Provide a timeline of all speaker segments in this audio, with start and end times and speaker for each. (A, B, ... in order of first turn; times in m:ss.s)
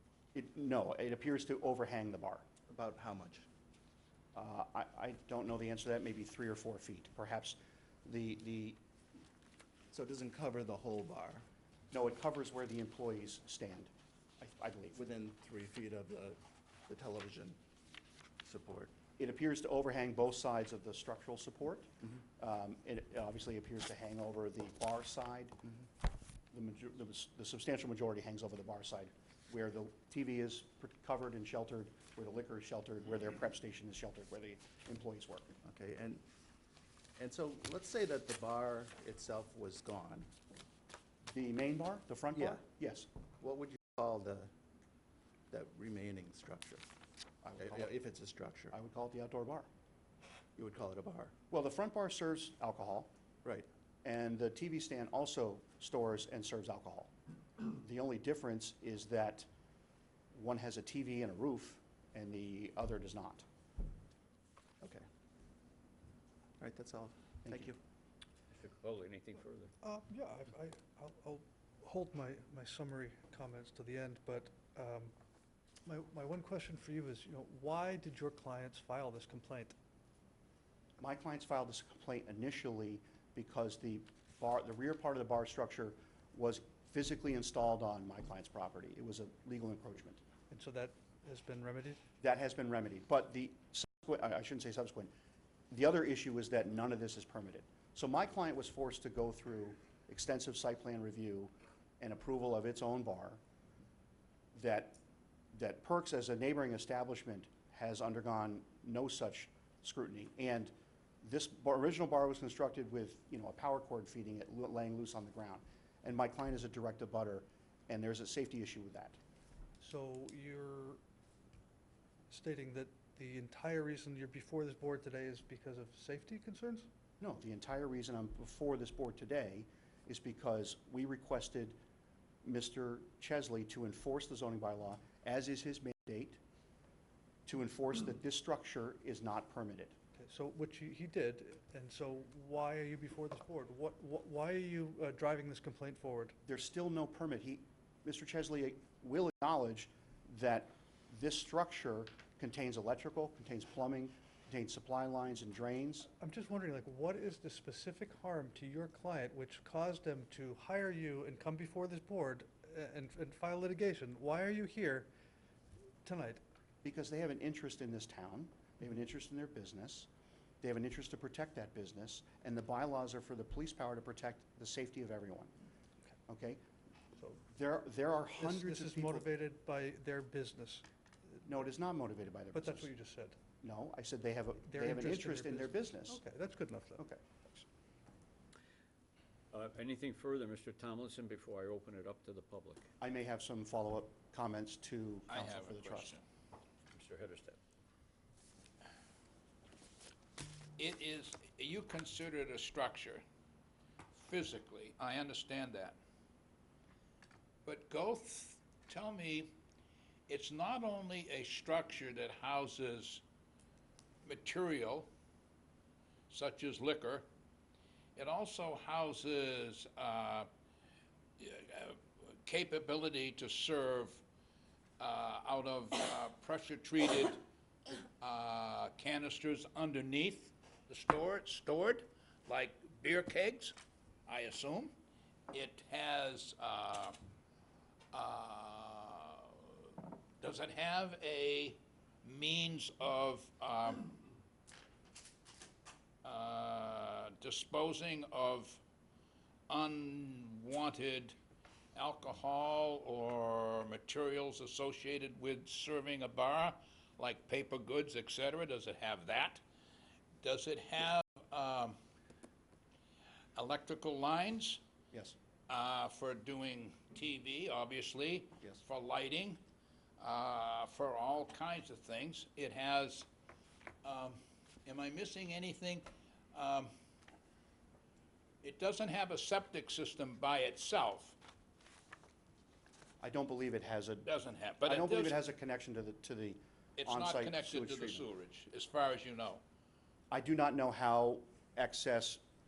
0:00.3-0:02.4 A
0:02.7-0:03.4 B
0:04.3-0:08.8 A
0:09.9-0:11.4 B
0:11.9-0:15.0 A
0:14.9-0:17.6 B
0:18.4-0:18.9 B
0:19.2-0:25.6 A
0:26.5-0:35.5 A
0:35.6-0:36.2 B
0:37.2-0:40.3 B
0:41.3-0:43.1 A
0:42.3-0:42.6 B
0:43.4-0:44.5 B
0:45.5-0:46.8 B
0:47.4-0:47.9 A
0:47.6-0:48.7 B
0:48.7-0:49.7 A
0:50.6-0:51.3 B
0:51.5-0:53.1 A
0:54.0-0:59.5 A
1:00.3-1:03.4 A
1:06.6-1:07.8 B
1:07.4-1:07.7 A
1:08.5-1:09.7 C
1:09.8-1:15.1 D
1:15.8-1:19.7 D
1:21.0-1:30.2 A
1:30.5-1:32.0 D
1:32.2-1:35.1 A
1:35.7-1:43.4 A
1:44.5-1:45.0 A
1:45.5-1:59.2 A
1:59.8-2:01.0 D
2:02.3-2:06.9 D
2:07.2-2:11.8 A
2:12.4-2:16.4 A
2:17.4-2:20.0 A
2:20.2-2:26.4 D
2:26.4-2:36.1 A
2:36.2-2:45.1 D
2:46.0-2:46.4 D
2:46.8-2:50.1 A
2:50.6-2:55.5 A
2:56.3-2:56.6 A
2:57.2-2:57.4 D
2:57.5-2:59.2 A
2:58.4-3:00.8 D
3:01.4-3:02.9 A
3:02.5-3:03.4 D
3:03.6-3:06.2 A
3:04.6-3:07.6 D
3:07.0-3:07.2 A
3:09.5-3:12.9 C
3:13.0-3:16.2 A
3:15.3-3:16.2 E
3:16.9-3:17.6 C
3:20.8-3:23.2 E
3:24.1-3:26.0 E
3:27.6-3:29.5 E
3:30.3-3:33.2 E
3:34.2-3:35.1 E
3:36.3-3:37.2 E
3:38.2-3:40.5 E
3:41.4-3:44.2 E
3:45.0-3:47.4 E
3:48.2-3:53.7 E
3:54.3-3:54.9 E
3:55.5-3:57.2 E
3:58.1-4:04.1 E
4:06.2-4:08.8 E
4:09.7-4:11.4 E
4:11.9-4:19.6 E
4:20.4-4:22.0 E
4:23.6-4:24.8 E
4:25.7-4:29.6 E
4:30.2-4:33.3 E
4:34.0-4:36.9 E
4:38.6-4:41.4 E
4:43.2-4:44.3 A
4:44.2-4:45.4 E
4:44.8-4:48.2 A
4:47.0-4:49.6 E
4:50.3-4:52.4 A